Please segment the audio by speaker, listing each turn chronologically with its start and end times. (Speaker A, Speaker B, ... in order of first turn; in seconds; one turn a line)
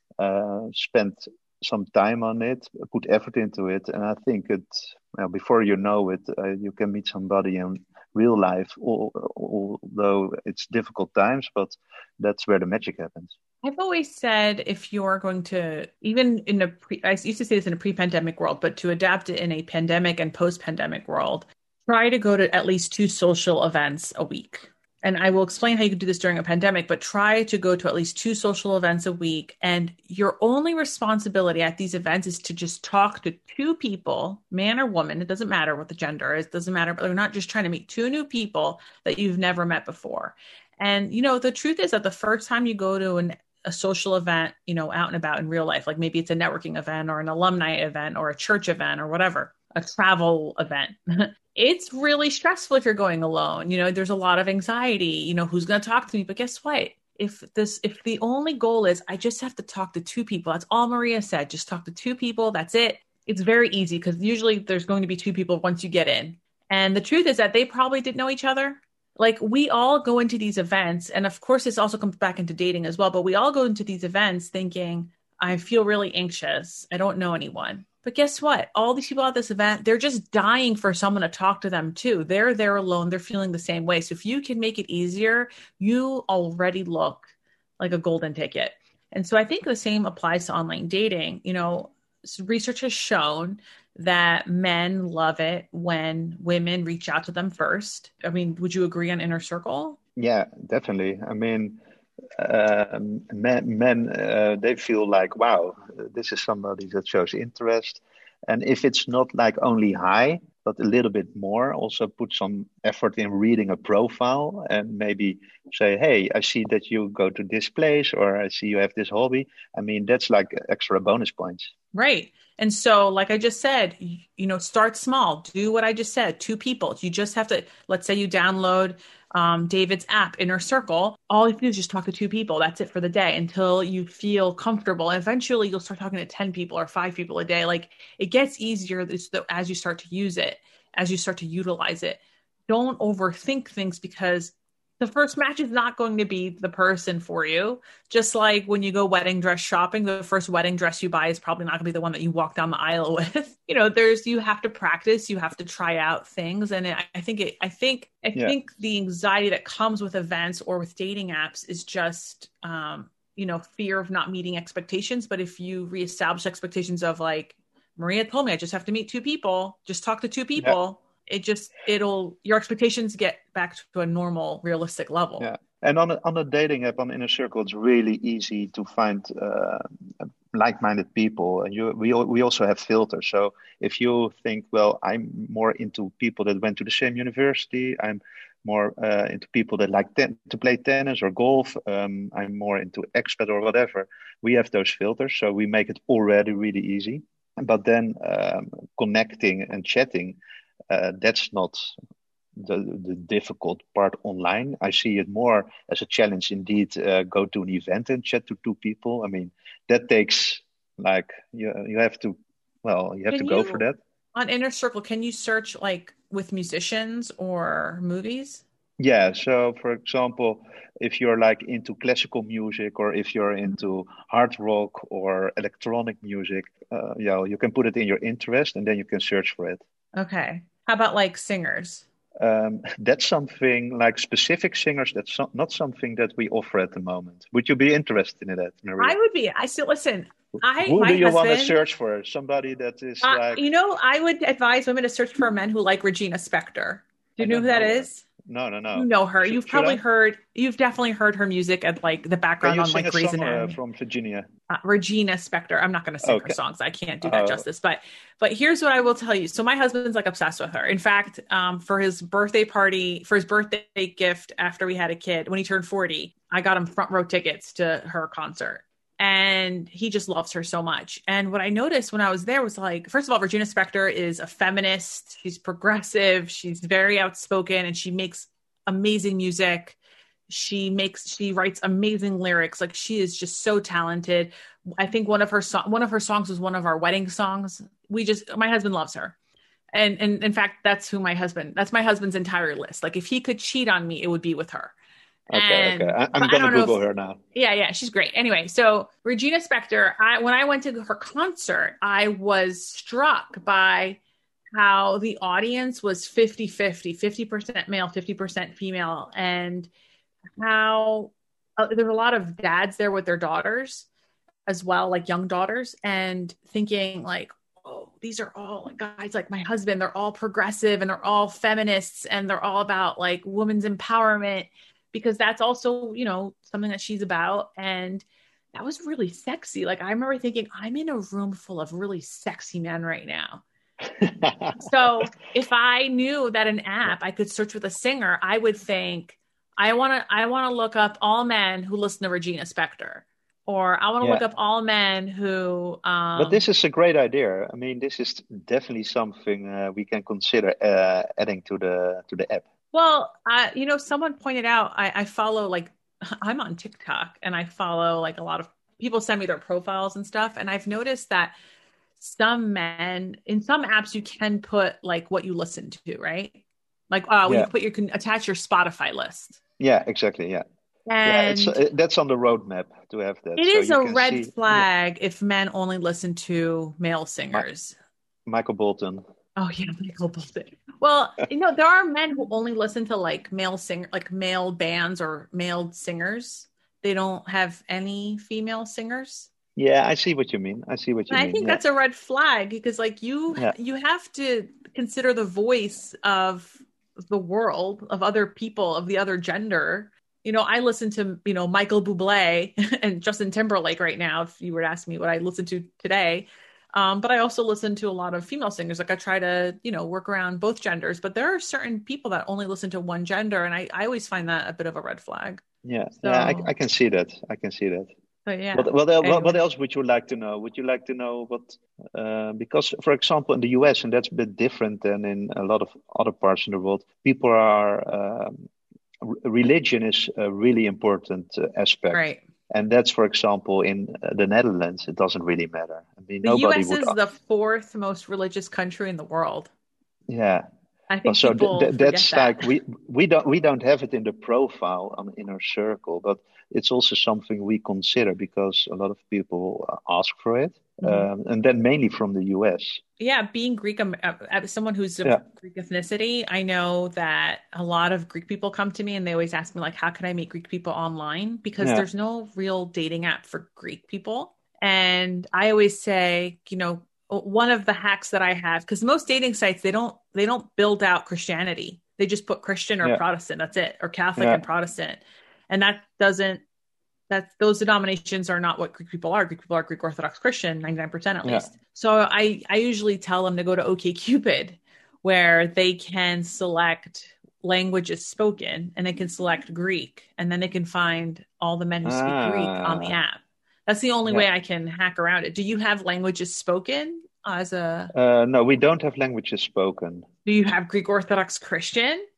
Speaker A: 0.2-13.3
Speaker B: 13.6-87.3
Speaker B: 87.8-100.0
Speaker A: 100.2-101.8
Speaker A: 102.4-121.7
Speaker B: 121.9-175.5
Speaker A: 175.4-179.9
Speaker A: 180.5-200.4
Speaker A: 200.9-202.0
Speaker A: 202.6-214.0
Speaker B: 213.3-213.8
Speaker B: 214.3-218.6
Speaker A: 219.0-229.8
Speaker B: 230.2-232.1
Speaker A: 232.4-239.2
Speaker B: 239.0-241.8
Speaker A: 240.6-243.6
Speaker B: 243.2-248.2
Speaker A: 247.4-250.0
Speaker B: 248.9-253.8
Speaker A: 252.6-254.5
Speaker B: 254.7-280.0
Speaker A: 256.2-256.6
Speaker A: 257.2-257.6
Speaker B: 280.5-289.4
Speaker B: 289.9-294.9
Speaker A: 295.5-297.4
Speaker B: 295.5-297.0
Speaker B: 297.6-304.2
Speaker B: 304.8-309.9
Speaker B: 310.6-314.1
Speaker B: 314.7-333.6
Speaker A: 334.2-334.9
Speaker B: 334.8-346.6
Speaker A: 346.4-352.7
Speaker B: 352.9-361.6
Speaker B: 362.2-366.6
Speaker B: 367.1-369.6
Speaker A: 369.8-370.6
Speaker B: 371.1-371.8
Speaker A: 371.2-374.9
Speaker B: 373.6-378.0
Speaker A: 378.5-379.2
Speaker B: 379.6-389.5
Speaker A: 389.8-391.8
Speaker B: 391.3-415.6
Speaker A: 415.8-418.1
Speaker B: 416.2-416.7
Speaker B: 418.4-419.6
Speaker A: 418.7-428.7
Speaker A: 429.2-437.2
Speaker B: 432.1-432.4
Speaker B: 436.4-439.7
Speaker A: 440.3-440.6
Speaker B: 441.1-442.7
Speaker A: 441.3-453.0
Speaker B: 451.0-451.3
Speaker B: 453.2-476.6
Speaker A: 474.4-474.6
Speaker B: 477.3-498.1
Speaker A: 492.1-493.2
Speaker A: 498.1-500.3
Speaker B: 500.4-502.3